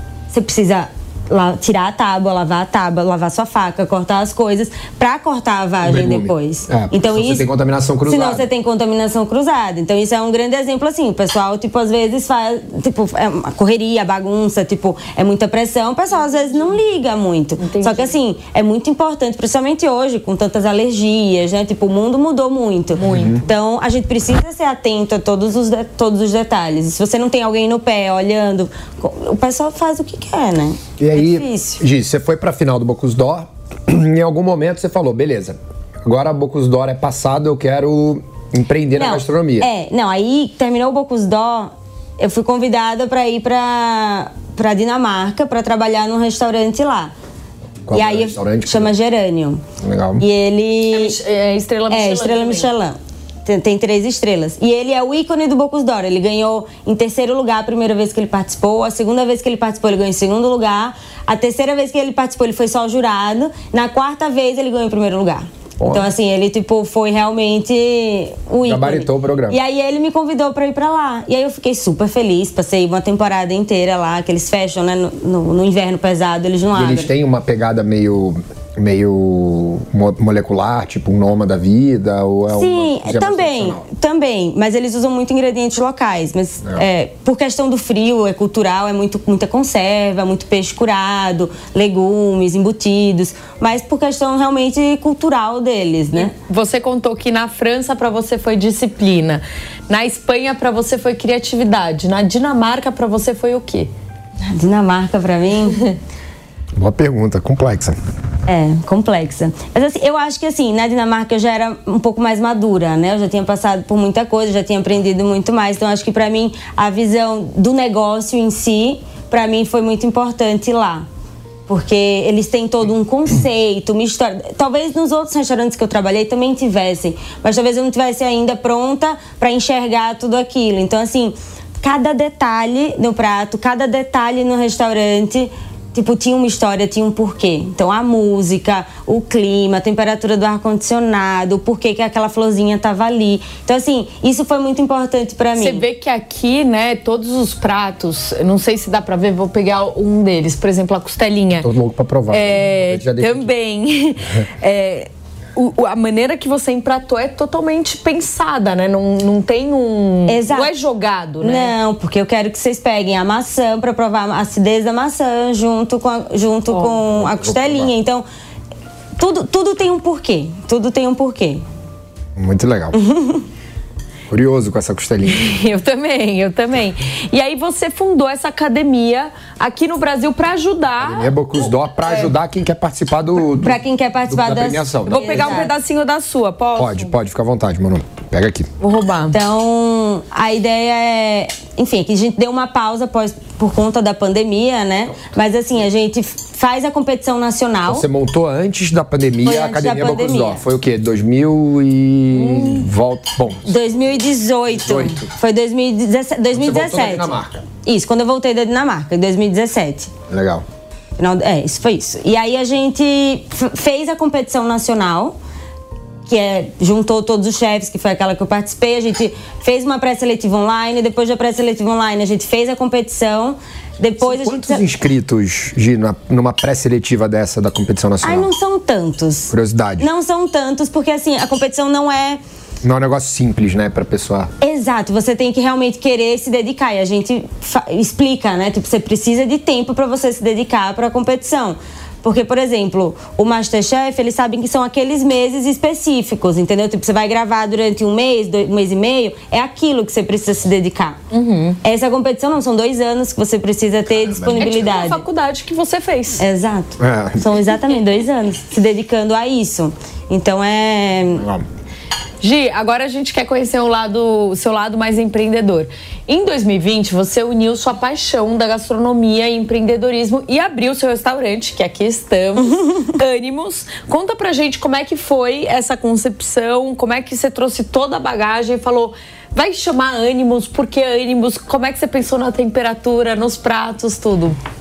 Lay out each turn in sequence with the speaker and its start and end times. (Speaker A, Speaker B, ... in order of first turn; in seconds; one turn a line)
Speaker A: 0.3-7.5
Speaker B: 5.8-8.5
Speaker A: 8.1-31.8
Speaker C: 17.6-18.1
Speaker C: 23.0-23.4
Speaker B: 23.1-23.4
Speaker B: 31.0-39.7
Speaker A: 39.0-47.1
Speaker B: 47.9-48.9
Speaker A: 47.9-49.6
Speaker B: 49.8-50.2
Speaker A: 50.2-51.2
Speaker C: 50.9-52.7
Speaker A: 51.9-77.1
Speaker B: 65.8-66.1
Speaker B: 68.6-69.6
Speaker B: 76.8-83.8
Speaker A: 82.5-96.3
Speaker C: 96.2-103.9
Speaker A: 104.5-105.8
Speaker B: 106.8-108.0
Speaker A: 108.5-121.0
Speaker A: 121.7-145.8
Speaker C: 145.6-151.7
Speaker B: 151.6-153.5
Speaker C: 152.3-161.7
Speaker A: 160.3-160.7
Speaker A: 161.4-168.2
Speaker B: 167.1-167.9
Speaker A: 169.2-171.6
Speaker B: 172.4-173.0
Speaker A: 172.9-173.4
Speaker B: 174.3-175.5
Speaker C: 175.3-182.3
Speaker B: 181.0-185.6
Speaker A: 183.6-185.7
Speaker C: 185.1-187.1
Speaker B: 186.8-188.7
Speaker C: 188.8-189.4
Speaker A: 189.3-198.1
Speaker B: 197.9-203.7
Speaker A: 199.4-200.6
Speaker A: 203.7-207.3
Speaker B: 204.8-205.3
Speaker B: 206.5-207.6
Speaker A: 207.8-210.1
Speaker B: 210.3-210.6
Speaker A: 211.2-215.3
Speaker A: 216.3-224.8
Speaker B: 224.2-228.5
Speaker A: 228.2-232.4
Speaker B: 229.5-230.1
Speaker B: 232.8-234.5
Speaker A: 234.6-251.2
Speaker C: 251.3-251.8
Speaker A: 251.8-255.2
Speaker B: 254.1-254.8
Speaker C: 254.6-256.4
Speaker A: 256.4-261.4
Speaker B: 257.0-257.4
Speaker B: 261.4-261.6
Speaker C: 262.4-284.6